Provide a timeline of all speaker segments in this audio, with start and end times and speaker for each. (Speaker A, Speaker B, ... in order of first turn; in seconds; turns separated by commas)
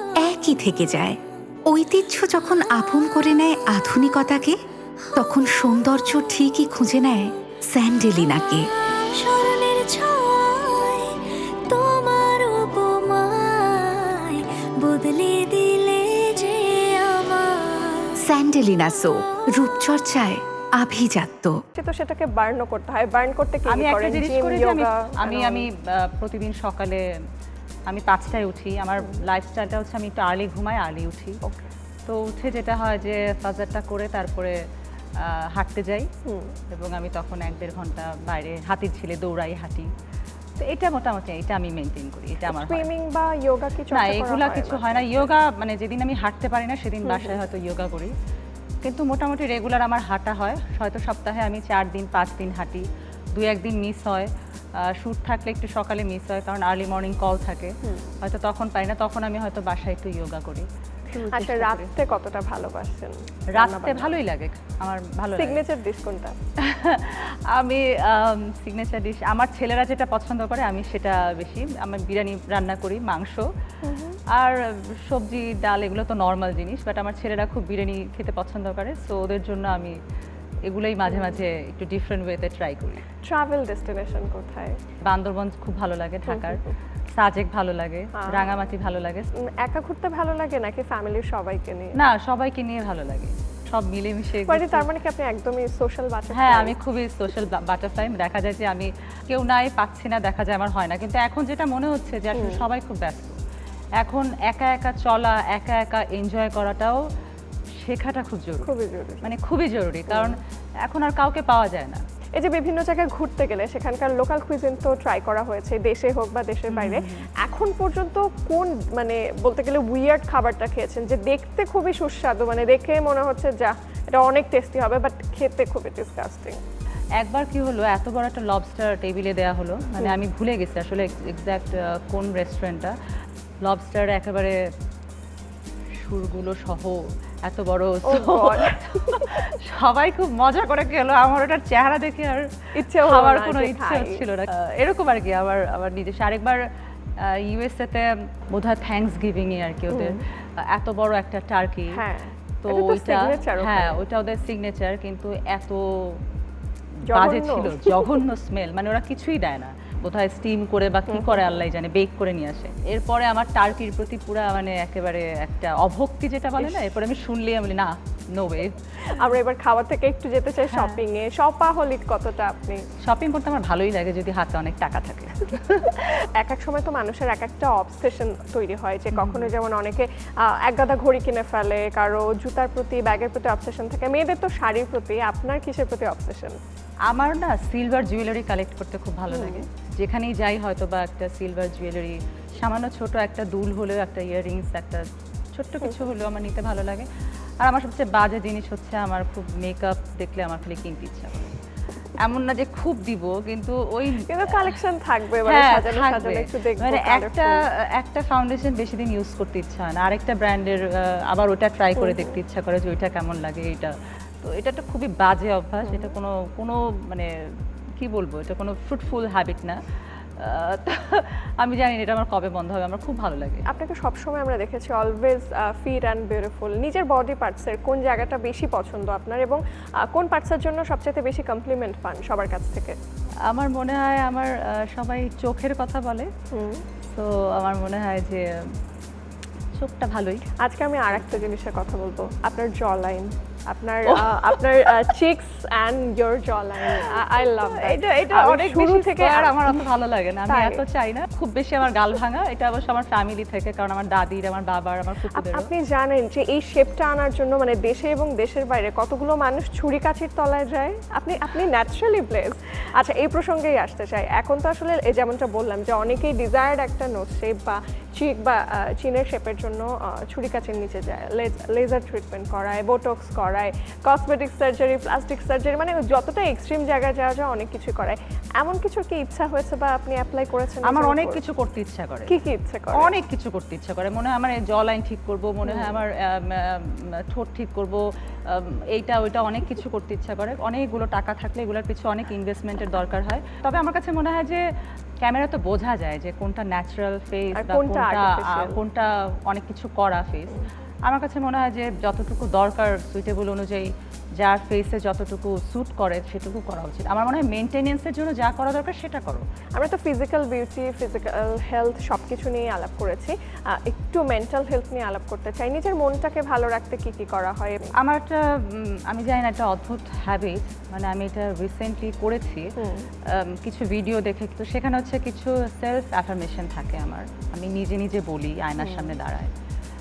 Speaker A: 0.2-4.6, Speaker A: 5.2-8.7, Speaker B: 9.1-18.2, Speaker A: 18.2-21.6, Speaker C: 21.7-25.7, Speaker D: 23.7-27.0, Speaker D: 27.9-31.4, Speaker C: 31.4-31.7, Speaker D: 32.0-34.5, Speaker D: 35.2-36.1, Speaker C: 36.2-36.6, Speaker D: 36.7-39.9, Speaker D: 40.6-42.9, Speaker C: 42.5-45.3, Speaker D: 43.9-48.1, Speaker C: 47.0-47.4, Speaker D: 48.8-54.3, Speaker D: 54.8-61.9, Speaker C: 57.8-58.1, Speaker C: 61.1-64.2, Speaker D: 63.5-65.6, Speaker C: 65.3-66.3, Speaker D: 66.6-73.4, Speaker C: 73.8-74.2, Speaker D: 74.3-80.0, Speaker D: 80.7-83.0, Speaker C: 81.1-81.4, Speaker C: 83.2-84.8, Speaker D: 85.0-86.6, Speaker C: 86.3-86.7, Speaker D: 87.1-89.3, Speaker C: 88.1-88.5, Speaker C: 89.3-92.0, Speaker D: 92.0-94.8, Speaker C: 94.5-96.8, Speaker D: 96.3-103.4, Speaker C: 102.3-102.6, Speaker D: 104.0-107.0, Speaker D: 107.8-112.0, Speaker C: 108.6-109.3, Speaker C: 110.1-110.3, Speaker C: 112.3-126.6, Speaker D: 116.7-117.2, Speaker D: 127.2-132.9, Speaker D: 133.6-134.6, Speaker D: 136.0-146.6, Speaker C: 138.1-139.4, Speaker C: 142.8-144.2, Speaker D: 147.2-152.0, Speaker C: 149.9-150.2, Speaker C: 151.9-154.0, Speaker D: 152.6-156.2, Speaker D: 157.1-169.2, Speaker C: 157.1-158.2, Speaker C: 161.1-161.6, Speaker C: 169.0-172.8, Speaker D: 170.7-171.0, Speaker D: 173.0-176.1, Speaker C: 176.3-186.6, Speaker D: 179.1-179.5, Speaker D: 187.1-197.1, Speaker C: 189.3-189.6, Speaker D: 197.6-201.5, Speaker D: 202.2-204.8, Speaker C: 204.3-207.6, Speaker D: 205.5-217.3, Speaker C: 212.0-212.4, Speaker C: 215.8-216.1, Speaker D: 218.0-219.8, Speaker D: 220.4-223.7, Speaker C: 223.7-233.0, Speaker D: 233.5-236.3, Speaker C: 236.5-236.8, Speaker D: 237.1-238.4, Speaker D: 239.7-240.4, Speaker C: 240.6-249.9, Speaker D: 244.1-244.4, Speaker D: 246.9-255.7, Speaker C: 250.5-250.8, Speaker C: 255.3-281.4, Speaker D: 280.9-282.4, Speaker C: 282.3-283.1, Speaker D: 282.9-294.6, Speaker C: 285.6-286.0, Speaker D: 295.2-309.4, Speaker C: 297.6-298.8, Speaker C: 309.7-317.9, Speaker D: 318.0-322.7, Speaker C: 322.8-323.1, Speaker D: 323.3-329.5, Speaker C: 328.8-329.2